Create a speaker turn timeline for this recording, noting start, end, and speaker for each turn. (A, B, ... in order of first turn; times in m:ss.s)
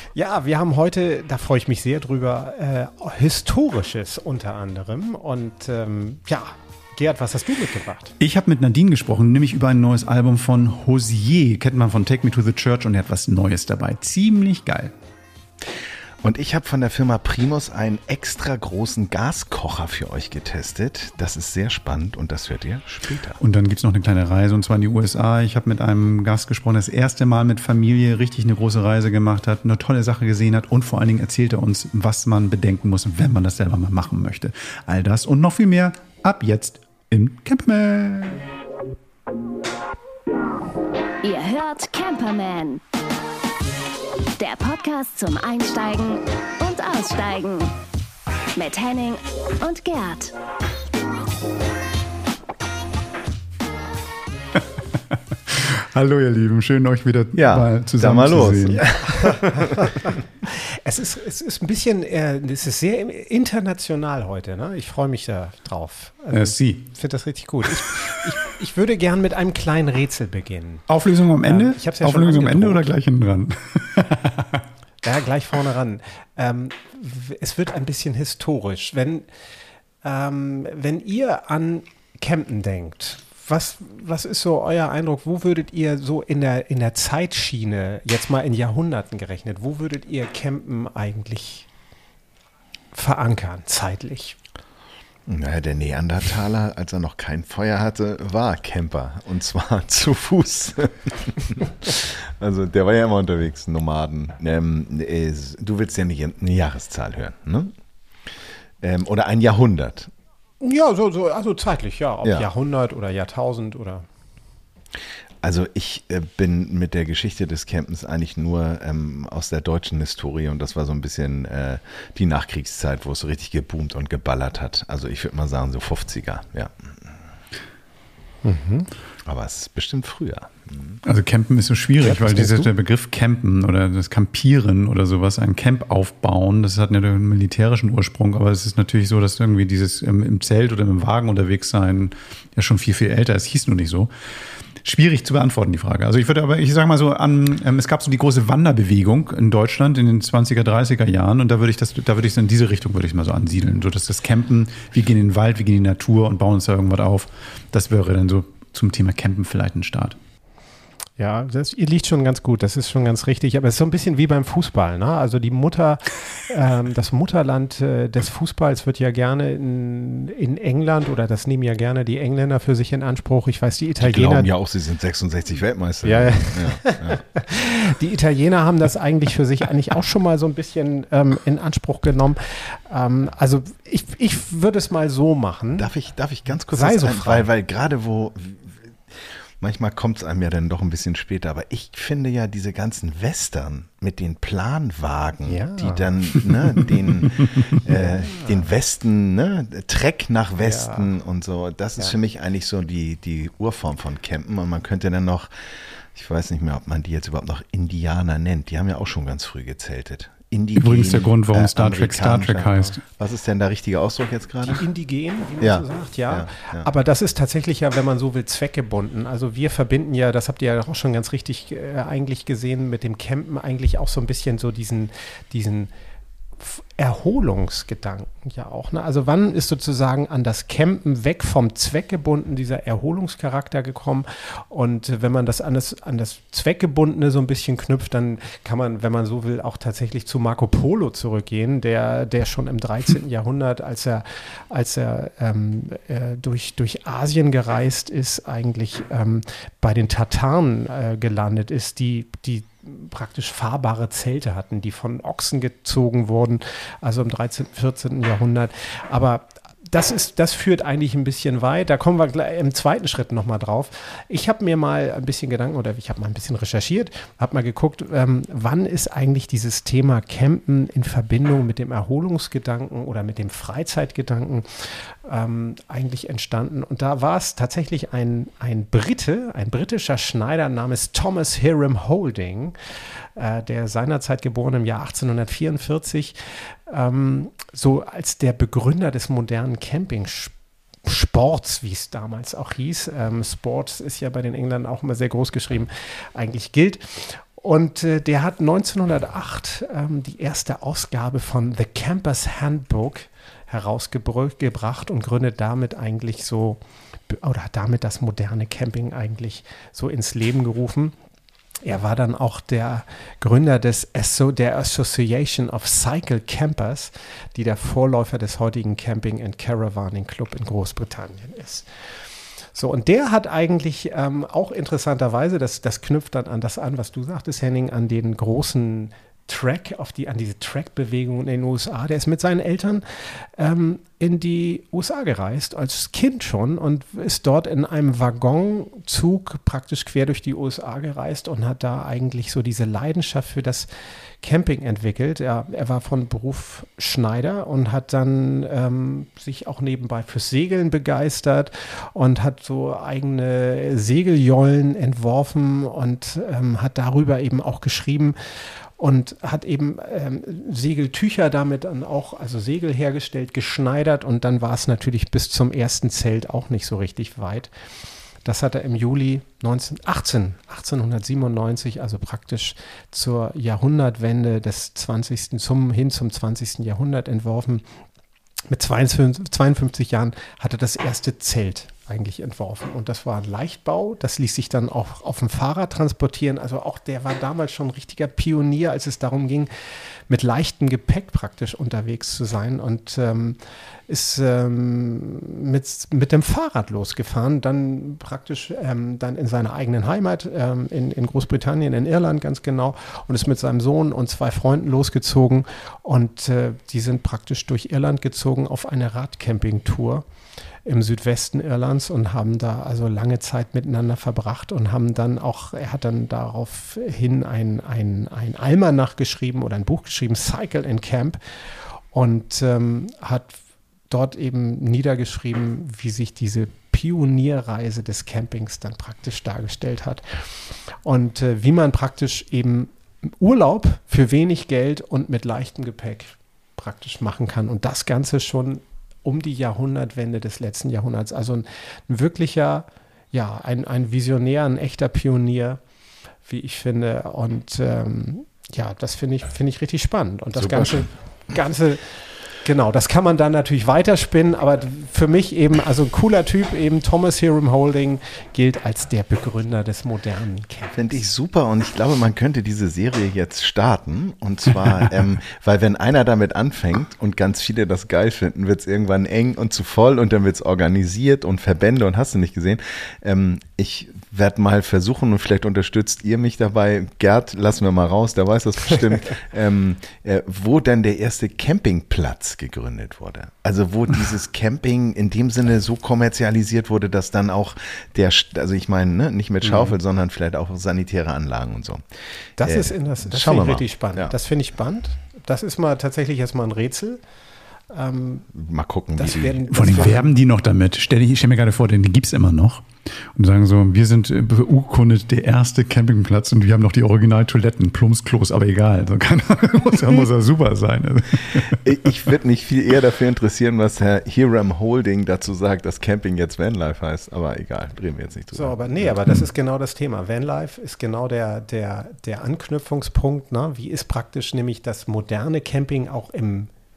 0:00.1-0:08.1 A
0:08.2-0:14.9 B
0:16.2-0:23.4 C
0:23.4-0:38.4 B
0:41.2-0:42.8 D
0:44.4-0:47.8 D
0:48.6-0:50.3 D
0:55.5-0:58.8 B
0:57.4-0:59.9 C
0:59.2-1:10.9 A
1:06.3-1:06.9 B
1:10.9-1:14.6 B
1:11.4-1:12.8 A
1:15.0-1:19.3 A
1:20.0-1:31.7 A
1:32.9-1:34.4 A
1:35.3-1:47.7 C
1:48.8-1:50.1 C
1:50.6-1:54.1 A
1:55.4-2:06.9 C
2:08.4-2:08.9 A
2:09.3-2:11.0 C
2:11.0-2:24.1 B
2:12.0-2:12.7 A
2:24.8-2:40.2 B
2:41.2-2:54.5 A
2:54.0-2:57.2 C
2:56.0-3:05.9 A
3:05.8-3:08.8 C
3:06.7-3:07.5 A
3:09.6-3:25.5 C
3:15.4-3:16.1 A
3:20.6-3:21.1 A
3:26.1-3:34.8 C
3:30.8-3:33.0 B
3:34.6-3:45.9 A
3:35.6-3:36.9 C
3:46.6-4:42.8 A
4:43.4-5:11.2 A
5:11.8-5:21.9 A
5:22.7-5:43.9 A
5:44.4-5:58.4 A
5:59.0-6:07.7 A
6:08.4-6:17.9 A
6:18.7-6:29.7 A
6:30.3-6:50.3 A
6:50.8-7:01.4 A
7:02.1-7:03.6 A
7:04.1-7:10.4 A
7:11.0-7:25.8 A
7:26.4-7:41.3 A
7:30.6-7:31.1 C
7:40.9-8:12.0 C
8:09.6-8:10.0 A
8:12.6-8:17.2 A
8:12.6-8:14.4 C
8:17.9-8:18.5 A
8:18.5-8:19.7 C
8:19.2-8:20.3 A
8:19.7-8:31.8 B
8:31.7-8:39.2 C
8:38.5-8:46.7 A